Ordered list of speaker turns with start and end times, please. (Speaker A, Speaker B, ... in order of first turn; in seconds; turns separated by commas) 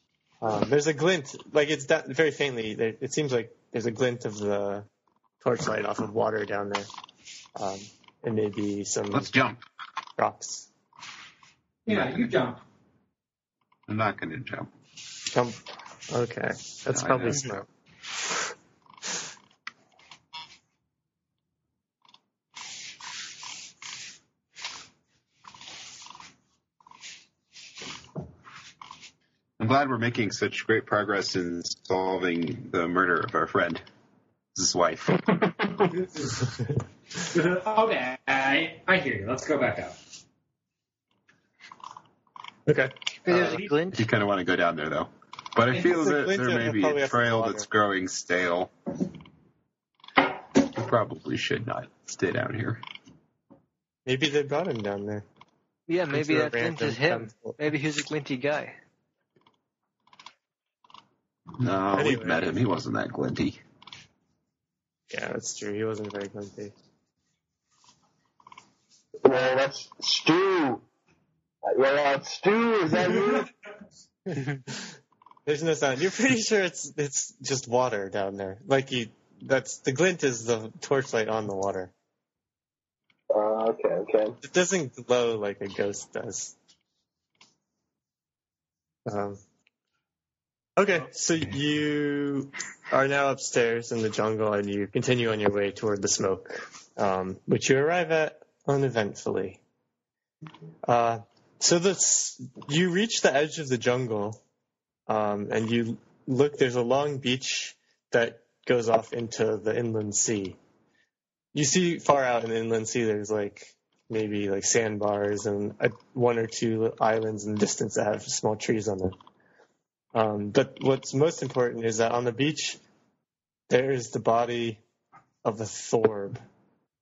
Speaker A: 0.4-4.9, Speaker A: 5.4-6.9, Speaker A: 7.5-9.3, Speaker B: 9.1-9.6, Speaker A: 10.2-10.7, Speaker C: 11.8-12.6, Speaker B: 13.9-14.7, Speaker A: 15.3-15.6, Speaker A: 16.1-17.7, Speaker B: 16.9-17.4, Speaker B: 29.6-33.8, Speaker B: 34.5-35.4, Speaker C: 37.3-40.0, Speaker A: 42.6-42.9, Speaker C: 43.3-43.8, Speaker D: 43.3-44.1, Speaker B: 43.9-48.7, Speaker A: 45.7-47.6, Speaker B: 50.6-52.8, Speaker A: 54.0-55.2, Speaker D: 55.9-58.7, Speaker A: 56.1-57.7, Speaker B: 61.6-63.6, Speaker A: 61.9-62.6, Speaker A: 65.1-66.7, Speaker E: 69.2-70.8, Speaker E: 71.6-73.5, Speaker A: 74.7-74.9, Speaker A: 75.5-81.9, Speaker E: 83.3-84.3, Speaker A: 84.4-86.5, Speaker A: 89.0-89.4, Speaker A: 90.8-99.6, Speaker A: 100.8-104.4, Speaker A: 105.1-110.6, Speaker A: 111.5-119.1, Speaker A: 120.1-122.8, Speaker A: 123.7-124.8, Speaker A: 125.4-126.4